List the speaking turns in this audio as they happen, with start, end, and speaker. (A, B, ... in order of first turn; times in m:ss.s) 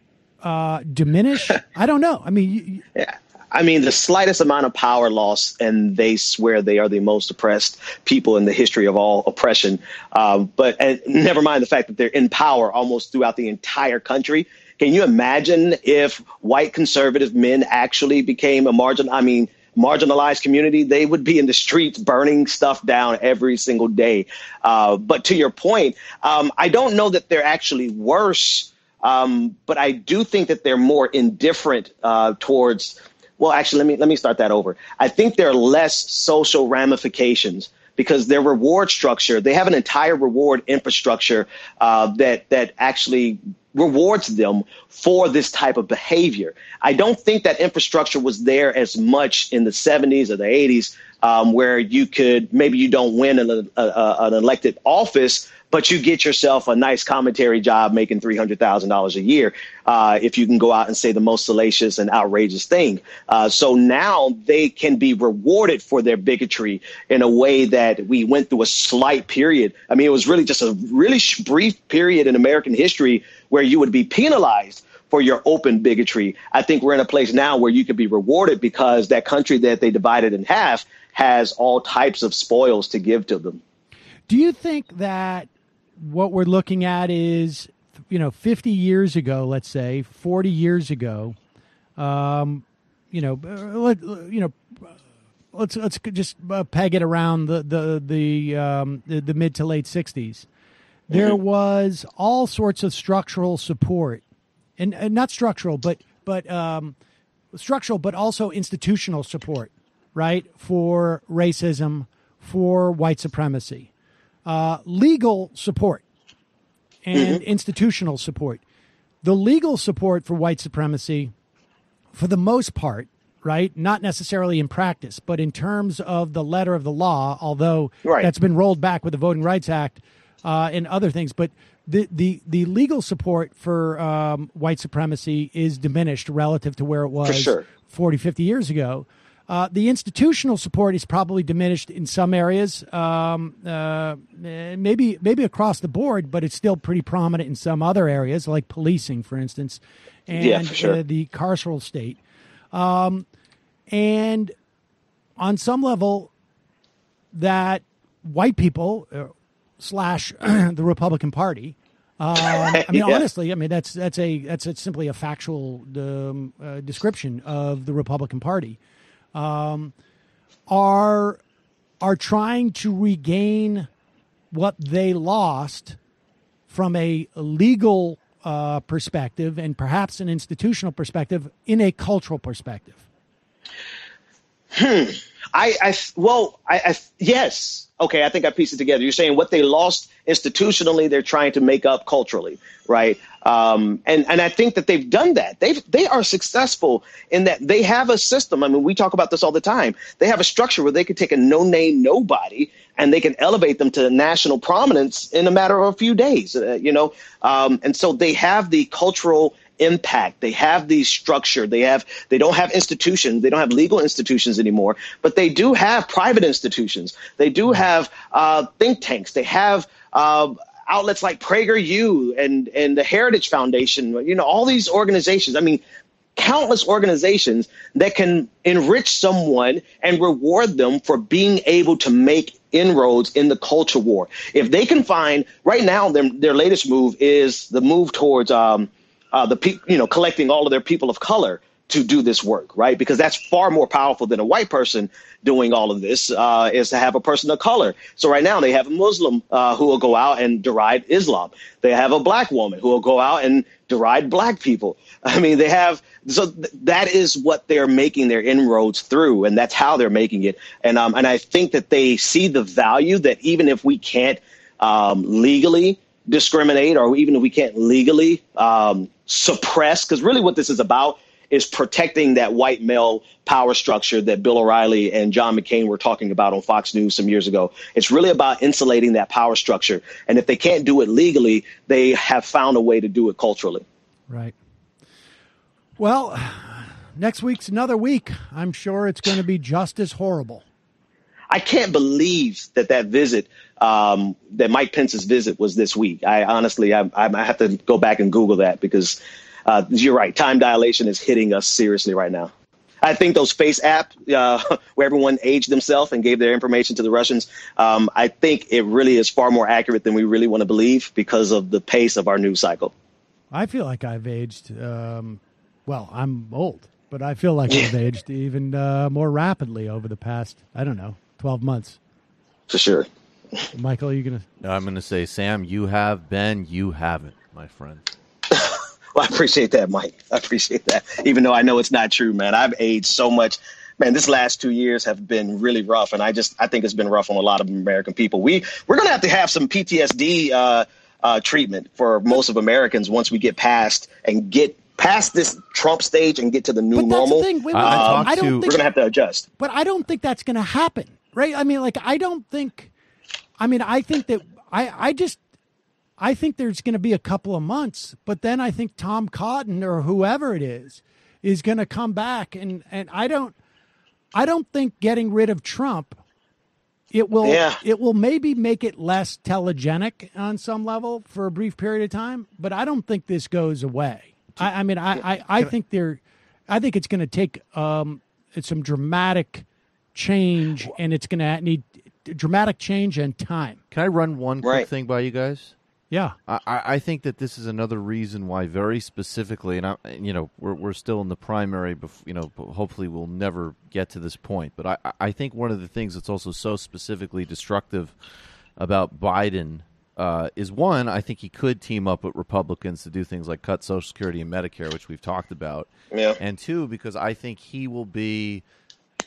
0:00.4-0:02.8 A
0:03.0-1:23.6 B
1:24.3-1:31.4 A
1:32.0-1:35.0 A
1:35.5-1:40.5 A
1:41.1-1:44.2 A
1:41.1-1:41.4 B
1:44.8-1:46.9 A
1:47.5-1:53.9 A
1:54.4-1:56.0 A
1:57.0-1:58.6 A
1:57.1-1:57.4 B
1:59.2-2:01.3 A
2:02.1-2:32.2 A
2:08.0-2:08.3 B
2:17.2-2:17.6 B
2:30.3-2:31.0 B
2:32.7-2:33.2 A
2:33.9-2:34.5 A
2:35.4-2:36.3 A
2:37.3-2:48.8 A
2:42.4-2:43.2 B
2:49.3-2:49.9 A
2:50.7-2:51.4 A
2:52.0-2:53.9 A
2:54.5-2:56.0 A
2:56.7-3:03.0 A
3:04.7-3:45.8 B
3:46.4-4:43.8 B
4:44.3-4:44.5 A
4:46.0-4:50.6 A
4:51.5-5:02.5 B
5:03.0-5:12.9 B
5:13.5-5:22.0 A
5:22.7-5:23.1 B
5:23.7-5:24.4 A
5:24.6-5:28.0 C
5:28.5-5:49.4 B
5:46.9-5:48.8 A
5:47.7-5:48.7 C
5:49.6-5:52.9 A
5:53.6-5:55.4 A
5:56.2-6:03.5 A
6:04.3-6:06.2 A
6:07.1-6:23.8 A
6:07.4-6:07.8 B
6:23.9-6:25.7 C
6:26.1-6:26.4 A
6:26.5-6:38.2 C
6:38.8-6:48.6 C
6:46.1-6:46.4 B